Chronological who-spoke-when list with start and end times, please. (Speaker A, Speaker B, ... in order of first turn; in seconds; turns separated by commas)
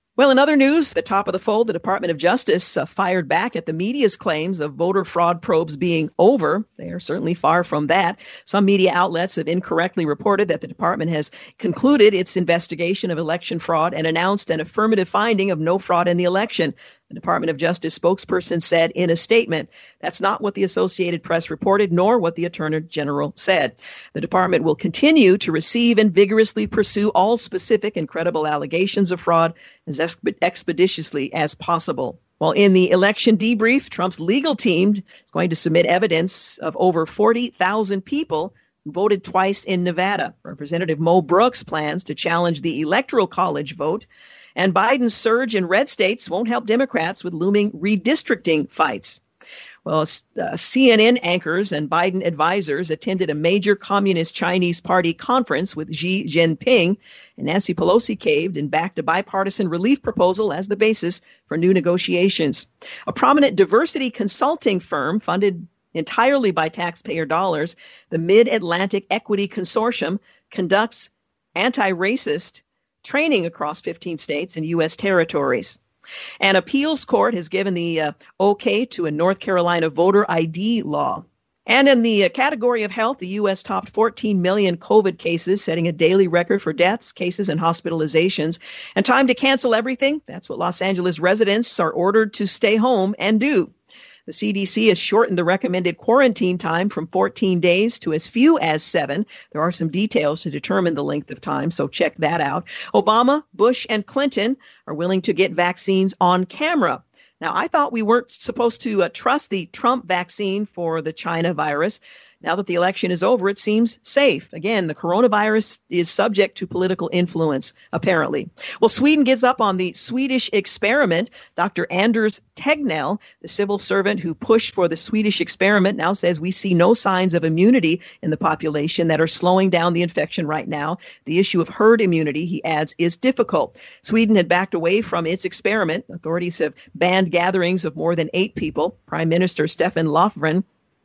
Speaker A: 0.2-49.2, Speaker A: 49.9-75.8, Speaker A: 76.4-93.7, Speaker A: 94.3-140.6